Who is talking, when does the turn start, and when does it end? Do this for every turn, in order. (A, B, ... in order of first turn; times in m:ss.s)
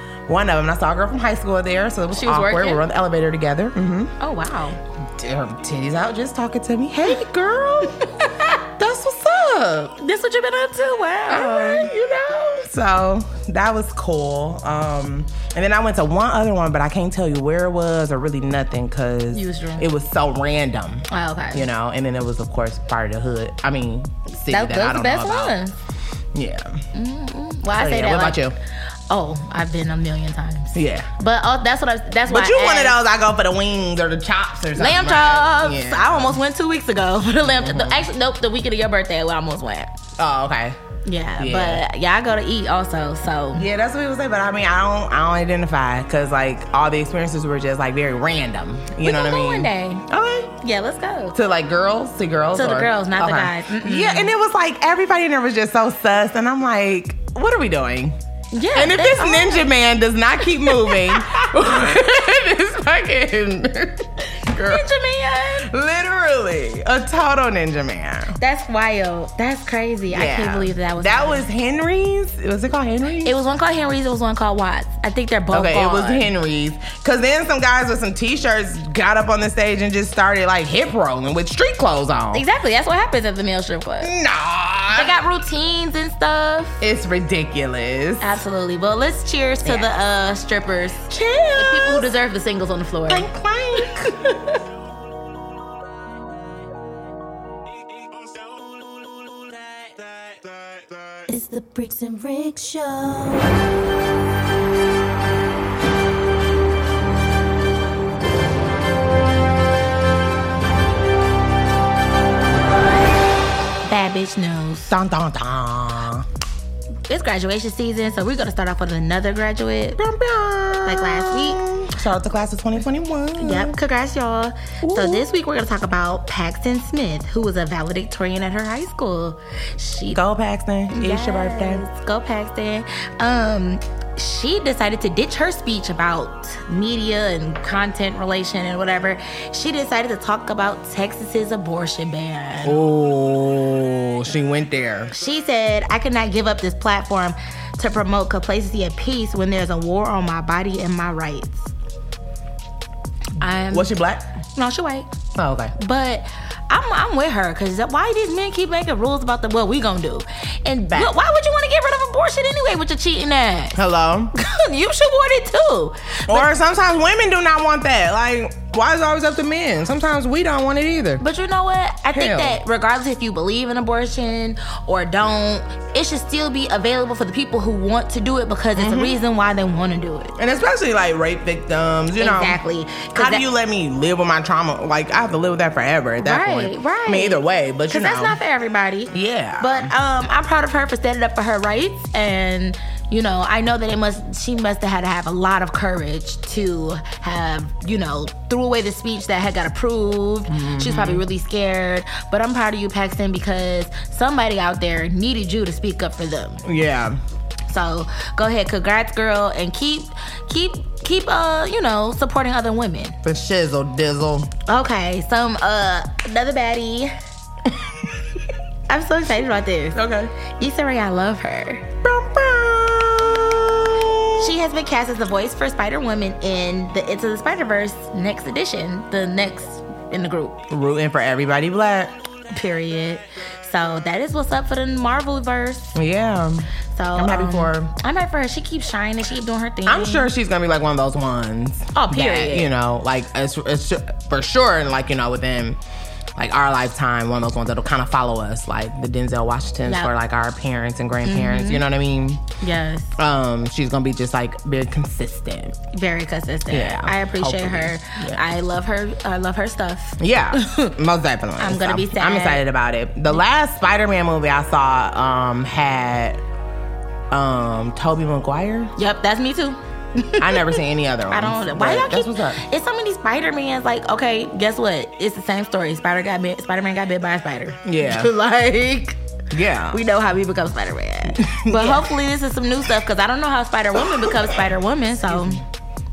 0:00.3-0:04.1 A
0:02.1-0:02.8 B
0:04.2-0:04.8 B
0:05.2-0:08.1 A
0:08.2-0:08.6 B
0:08.8-0:09.9 A
0:10.0-0:11.9 B
0:11.3-0:25.6 A
0:19.3-0:19.9 B
0:21.1-0:21.6 B
0:24.5-0:25.8 B
0:26.3-0:26.8 A
0:26.9-0:28.4 B
0:27.7-0:28.5 A
0:29.1-0:33.0 B
0:30.7-0:31.1 A
0:32.3-0:36.4 A
0:34.8-0:39.9 B
0:37.4-0:38.1 A
0:40.2-0:40.8 A
0:41.0-0:43.7 B
0:41.4-0:41.8 A
0:43.5-0:50.5 A
0:49.0-0:50.1 B
0:50.6-0:51.4 B
0:51.3-0:58.2 A
0:52.5-0:54.3 B
0:58.5-0:59.7 B
0:58.7-1:04.9 A
1:00.6-1:01.5 B
1:04.5-1:05.7 B
1:05.6-1:08.4 A
1:08.4-1:11.4 B
1:10.1-1:13.3 A
1:13.2-1:16.3 B
1:15.5-1:22.4 A
1:22.3-1:24.1 B
1:24.0-1:25.1 A
1:24.9-1:26.8 B
1:26.8-1:28.4 A
1:28.2-1:33.3 B
1:29.6-1:29.9 A
1:31.1-1:32.1 A
1:33.1-1:34.2 A
1:33.8-1:34.4 B
1:41.3-1:43.5 C
1:53.8-1:54.9 B
1:54.9-1:56.3 A
1:57.1-2:00.0 B
2:00.0-2:03.7 A
2:00.8-2:01.6 B
2:03.4-2:10.2 B
2:04.8-2:05.2 A
2:10.1-2:11.8 A
2:10.9-2:22.8 B
2:22.6-2:25.1 A
2:25.1-2:31.7 B
2:33.4-2:33.9 B
2:33.7-2:34.3 A
2:34.6-2:35.1 B
2:35.4-2:35.7 A
2:35.8-2:43.8 B
2:43.8-2:44.3 A
2:44.3-2:46.5 B
2:46.3-2:51.2 A
2:51.2-3:00.3 B
2:52.1-2:52.6 A
2:58.8-2:59.2 A
3:00.4-3:02.6 A
3:02.2-3:03.4 B
3:03.1-3:08.4 A
3:06.2-3:26.6 B
3:09.1-3:09.9 A
3:20.5-3:21.2 A
3:26.6-3:27.2 A
3:27.7-3:33.2 B
3:33.2-3:34.5 A
3:34.7-3:37.1 B
3:38.9-3:40.0 B
3:39.9-3:40.3 A
3:40.6-3:41.9 B
3:42.0-3:44.5 A
3:44.4-3:50.6 B
3:50.7-3:52.1 A
3:52.5-3:55.9 B
3:55.9-3:57.9 A
3:56.9-4:00.3 B
3:59.8-4:05.8 A
4:01.9-4:02.7 B
4:06.4-4:12.4 A
4:09.8-4:10.1 B
4:11.2-4:11.8 B
4:12.6-4:13.2 B
4:13.2-4:15.8 A
4:15.9-4:20.9 B
4:16.7-4:18.4 A
4:20.2-4:26.4 A
4:21.6-4:22.6 B
4:27.3-4:28.9 A
4:29.0-4:39.2 B
4:30.4-4:32.6 A
4:37.8-4:38.3 A
4:39.5-4:40.0 A
4:39.9-4:45.6 B
4:41.4-4:42.1 A
4:45.2-4:45.6 A